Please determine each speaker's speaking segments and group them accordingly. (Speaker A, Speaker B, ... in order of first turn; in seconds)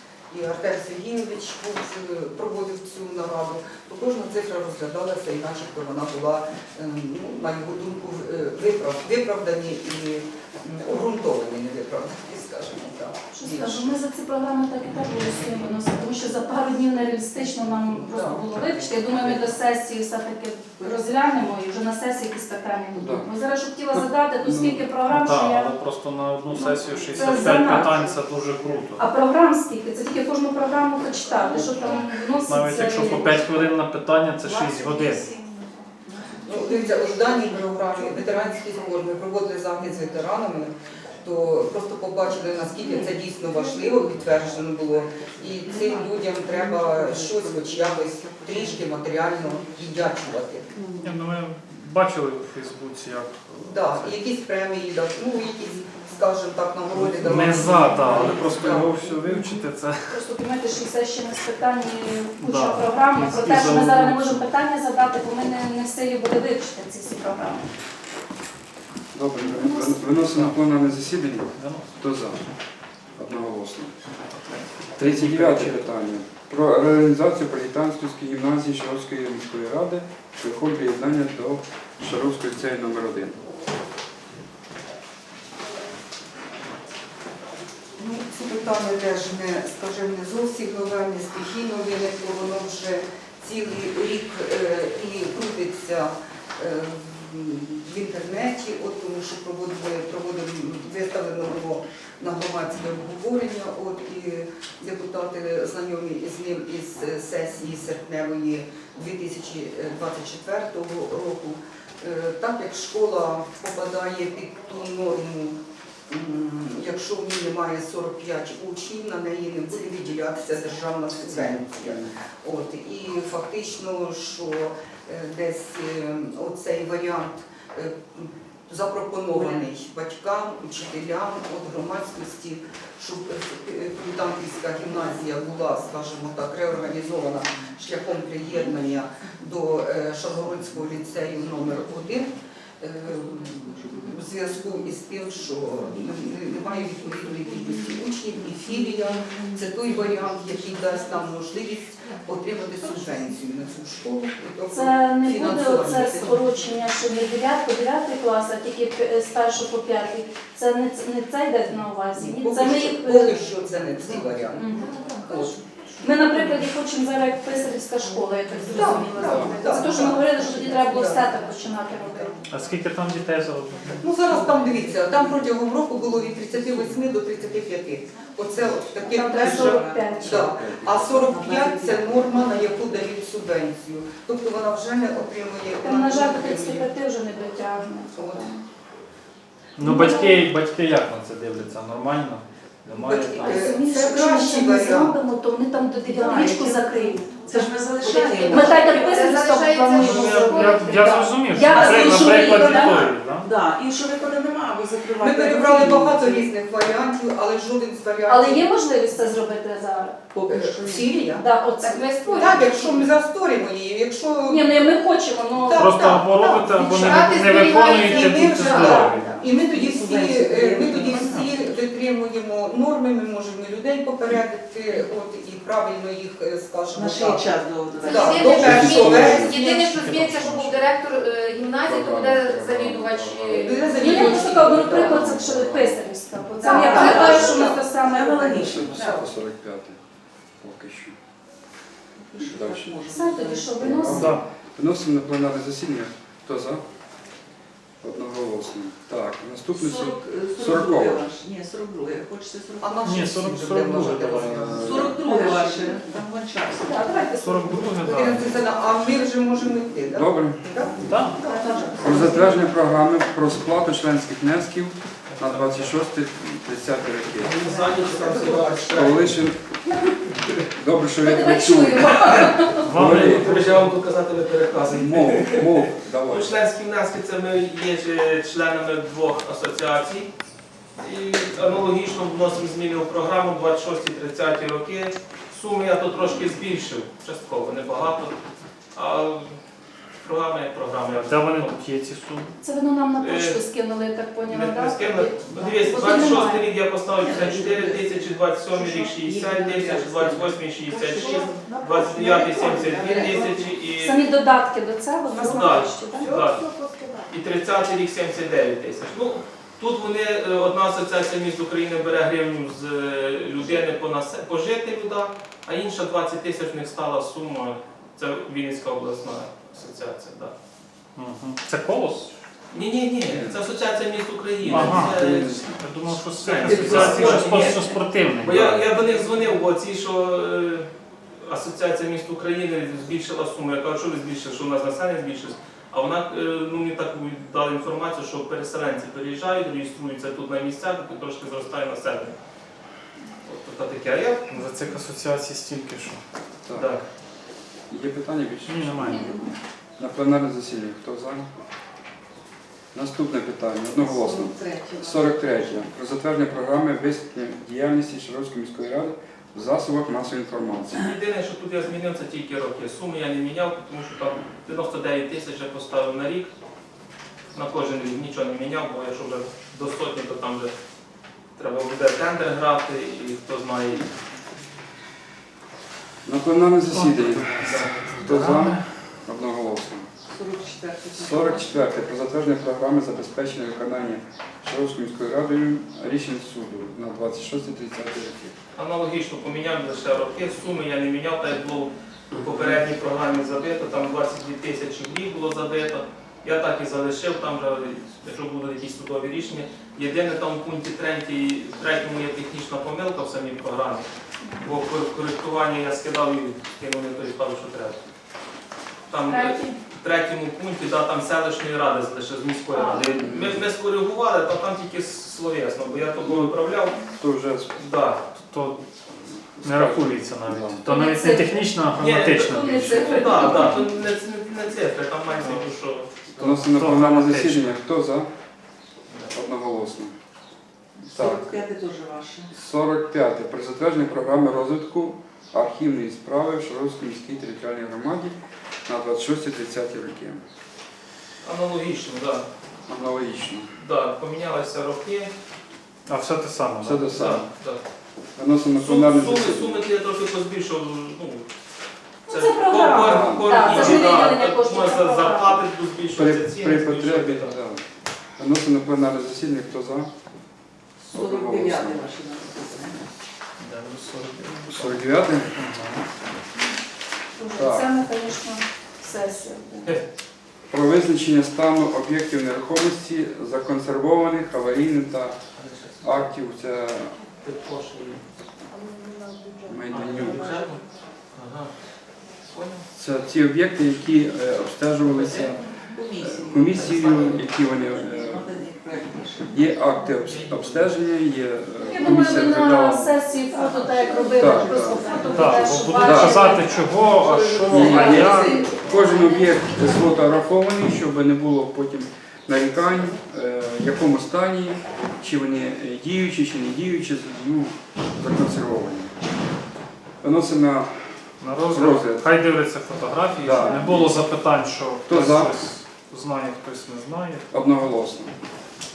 Speaker A: 0.3-13.9, 18.0-18.4, 36.4-50.7, 53.6-59.1, 88.0-115.6, 116.1-156.5, 162.1-165.6, 168.7-172.4, 174.0-186.9, 188.1-188.5, 192.9-195.2, 196.2-196.7, 198.0-198.8, 201.7-203.1, 205.1-208.7, 210.5-211.5, 212.3-214.9, 215.5-230.3, 233.5-235.5, 236.6-237.8, 252.8-256.0, 258.0-262.4, 267.7-269.1
Speaker B: 13.3-25.8, 26.5-28.1, 28.9-33.5, 60.1-67.7, 69.5-70.2, 154.7-163.5, 164.5-172.3, 179.0-180.5, 185.8-188.6, 189.8-190.4, 193.3-203.1, 208.3-210.2, 211.2-212.8, 214.5-216.0, 233.9-239.2, 243.1-244.3, 256.8-258.0, 271.2-272.9, 292.6-296.7, 303.9-306.3, 404.4-404.7, 409.2-409.8, 412.7-413.1, 420.8-421.7, 422.4-423.8, 452.3-455.6, 467.4-469.9, 491.8-496.7, 497.8-499.0, 513.6-514.1
Speaker C: 22.9-23.3, 23.9-24.9, 69.1-72.4, 73.2-74.0, 75.0-83.4, 121.2-122.1, 169.2-169.5, 180.2-180.9, 228.4-229.6, 231.8-233.8, 234.9-236.0, 238.6-240.0, 240.6-241.2, 242.4-242.9, 243.8-246.8, 248.0-251.2, 254.3-255.2, 260.1-260.6, 262.0-267.6, 268.9-269.6, 270.7-273.6, 274.9-276.5, 323.3-323.6, 324.6-325.7, 326.8-327.1, 346.7-346.9, 347.9-349.4, 350.0-351.5, 352.9-361.1, 376.2-380.1, 381.1-388.6, 412.9-413.6, 416.2-416.5, 417.2-417.8, 419.6-420.9, 423.5-423.8, 426.3-428.3, 429.3-430.1, 431.1-431.6, 432.5-438.3, 438.9-440.4, 442.9-443.7, 446.8-447.5, 448.4-449.8, 453.0-454.3, 456.1-457.8, 458.4-460.1, 461.1-462.0, 464.7-465.7, 467.5-467.9, 470.7-475.4, 476.0-477.1, 479.6-480.7, 482.9-485.6, 486.2-488.5, 489.4-493.1, 494.3-495.1, 496.0-496.5, 497.7-509.1, 510.2-511.1, 511.7-512.3, 513.4-514.2, 515.1-515.5, 517.5-518.3
Speaker D: 25.1-29.1, 32.4-35.3, 51.0-54.2, 56.9-60.2, 62.4-64.5, 70.2-70.5, 71.6-71.9, 74.4-75.8, 172.5-174.1, 189.8-193.7, 199.9-203.5, 215.8-219.4, 229.8-230.8, 244.1-244.4, 253.0-254.9, 257.4-258.5, 261.0-261.4, 272.8-273.9, 291.1-292.6, 321.1-322.3, 324.7-328.8, 344.5-346.2, 348.7-349.4, 376.9-378.8, 418.4-418.8, 419.6-423.8, 426.4-427.7, 446.1-447.1, 463.6-466.0, 495.3-498.6, 511.4-517.5
Speaker E: 26.9-28.9, 31.3-32.5, 33.0-33.7, 34.2-39.1, 42.6-51.3, 55.4-56.3, 57.6-58.8, 129.3-129.6, 149.3-151.0, 152.8-153.1, 169.0-169.5, 174.3-175.3, 176.5-176.9, 178.6-183.0, 196.1-199.1, 201.7-202.7, 203.4-206.5, 210.3-211.2, 219.5-221.8, 226.9-228.9, 236.6-239.3, 242.2-244.2, 249.7-253.0, 254.8-257.4, 261.4-262.7, 297.1-303.8, 306.3-307.3, 327.2-327.6, 354.0-355.9, 380.3-381.9, 431.1-432.5, 461.0-463.1, 485.1-489.9, 493.5-498.8
Speaker F: 198.6-201.4, 211.8-213.1, 216.4-219.4, 228.0-234.4, 236.6-237.4, 498.9-500.4
Speaker G: 265.3-265.9, 267.4-269.4, 273.0-280.3, 281.0-288.3, 288.9-289.6, 290.2-291.7, 293.2-293.6, 294.4-304.3, 305.4-306.6, 307.3-320.5, 322.7-325.7, 326.4-330.9, 331.4-342.3, 343.4-344.4, 346.7-347.0, 360.9-366.5, 367.5-370.7, 371.6-374.1, 377.6-377.9, 388.8-404.1, 404.6-408.0, 409.1-417.0, 417.8-418.2, 422.0-426.1, 441.4-442.4, 443.8-445.3, 447.1-447.8, 448.8-451.5, 452.3-457.5, 475.6-476.3, 477.4-478.2, 479.9-481.7, 482.5-482.9, 486.7-487.4, 490.2-490.9